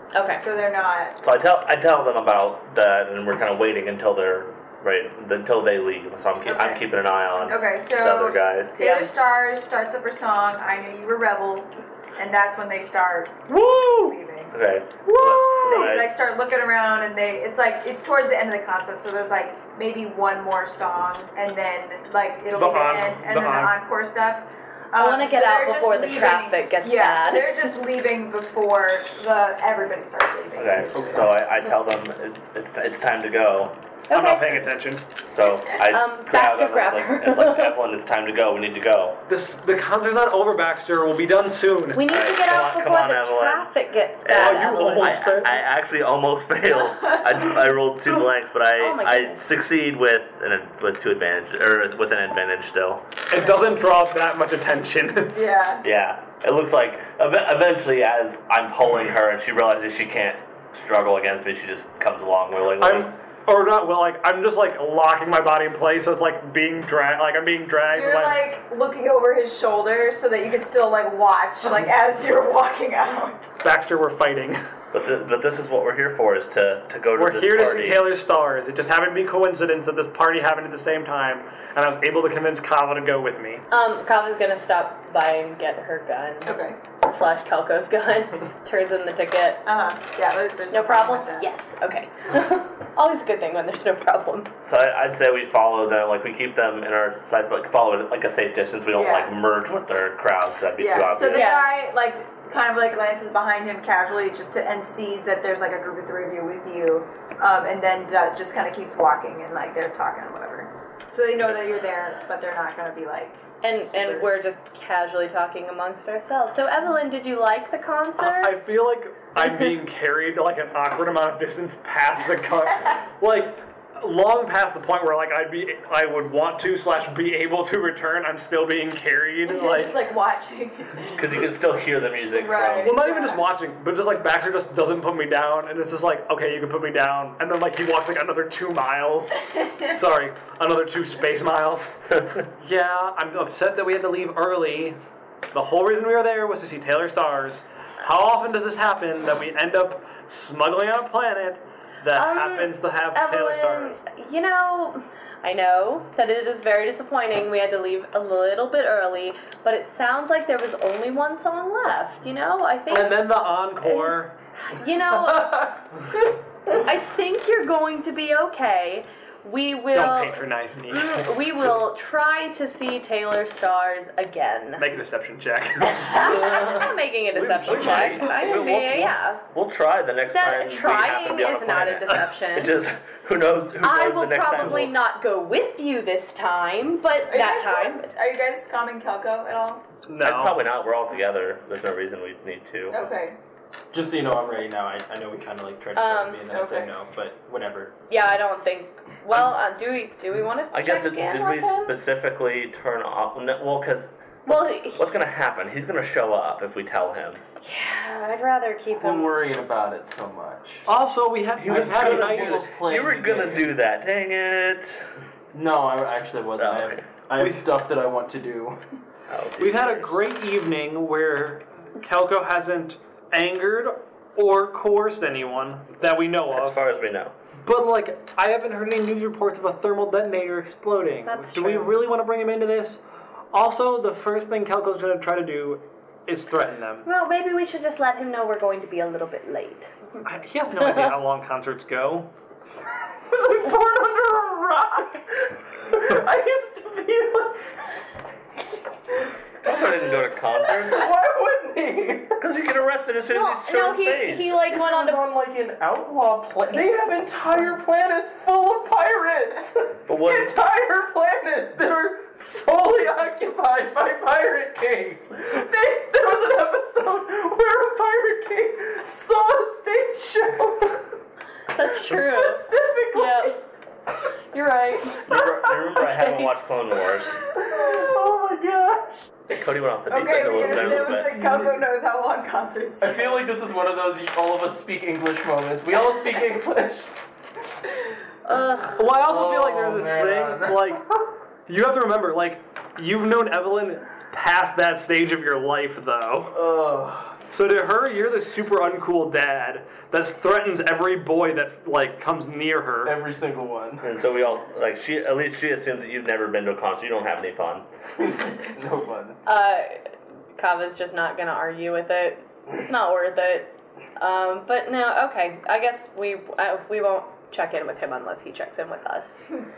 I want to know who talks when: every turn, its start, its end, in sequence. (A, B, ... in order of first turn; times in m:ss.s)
0:00.1-0:00.4 A
0:00.3-0:01.2 B
0:01.2-0:08.8 C
0:06.4-0:14.6 B
0:08.8-0:09.2 A
0:13.5-0:14.2 D
0:14.5-0:16.1 C
0:15.0-0:15.9 D
0:15.6-0:31.4 B
0:22.5-0:23.8 D
0:25.0-0:27.7 A
0:30.6-0:33.8 C
0:34.1-0:34.6 A
0:34.1-0:35.0 D
0:35.2-0:39.2 C
0:35.8-0:37.8 A
0:39.3-0:42.3 D
0:41.9-0:45.4 A
0:42.2-0:43.7 C
0:44.2-0:53.1 C
0:44.3-0:45.6 D
0:46.9-0:47.3 B
0:48.8-0:49.5 A
0:53.3-0:55.4 D
0:55.3-0:55.8 B
0:55.8-1:03.1 C
1:02.8-1:08.5 D
1:07.8-1:13.6 B
1:13.6-1:14.6 D
1:14.9-1:18.1 C
1:17.2-1:23.6 D
1:23.7-1:29.6 A
1:26.4-1:26.8 B
1:29.6-1:31.5 B
1:30.7-1:34.5 A
1:34.6-1:41.5 C
1:38.9-1:39.4 B
1:40.8-1:54.3 B
1:41.3-1:41.7 A
1:53.6-1:58.6 A
1:58.2-2:10.0 D
2:09.4-2:11.4 B
2:11.1-2:13.0 C
2:12.3-2:13.4 B
2:12.8-2:19.4 D
2:19.9-2:25.0 D
2:25.5-2:34.0 D
2:32.1-2:45.7 A
2:42.9-2:44.4 D
2:45.3-2:45.7 E
2:46.7-2:54.9 A
2:49.9-2:51.7 D
2:54.8-2:58.7 D
2:56.0-2:59.4 A
2:57.7-3:05.0 C
3:00.3-3:02.8 A
3:03.8-3:08.1 A
3:07.3-3:09.8 B
3:10.1-3:10.6 D
3:10.2-3:13.0 C
3:12.9-3:13.4 B
3:13.9-3:18.0 E
3:16.0-3:16.4 A
3:16.5-3:16.9 B
3:18.1-3:22.0 A
3:20.7-3:27.4 C
3:24.5-3:25.2 A
3:27.6-3:29.4 A
3:28.9-3:31.0 E
3:30.9-3:32.7 D
3:31.6-3:35.0 C
3:31.6-3:33.7 E
3:35.5-3:38.8 E
3:36.6-3:37.1 C
3:37.4-3:37.7 D
3:39.3-3:40.2 C
3:39.6-3:46.8 D
3:46.5-3:47.4 C
3:47.6-3:53.0 D
3:51.2-3:52.0 A
3:53.5-3:57.1 D
3:57.0-4:00.3 A
4:00.2-4:02.3 D
4:00.8-4:01.2 A
4:03.3-4:07.6 E
4:09.6-4:11.1 C
4:10.6-4:12.4 E
4:12.4-4:14.6 C
4:13.3-4:15.2 A
4:14.7-4:31.0 E
4:20.1-4:20.5 C
4:31.7-4:33.6 A
4:31.8-4:33.6 E
4:34.5-4:36.5 A
4:35.2-4:37.4 C
4:37.5-4:39.3 E
4:37.9-4:38.2 B
4:39.5-4:41.4 C
4:40.1-4:43.5 B
4:40.5-4:41.4 E
4:43.0-4:47.1 E
4:48.5-4:49.0 A
4:48.5-4:51.2 E
4:49.0-4:51.0 D
4:51.7-4:56.6 D
4:56.5-4:57.4 E
4:57.5-5:03.2 D
5:03.0-5:04.0 E
5:04.0-5:07.9 C
5:08.2-5:09.4 E
5:09.4-5:10.0 A
5:10.6-5:19.5 A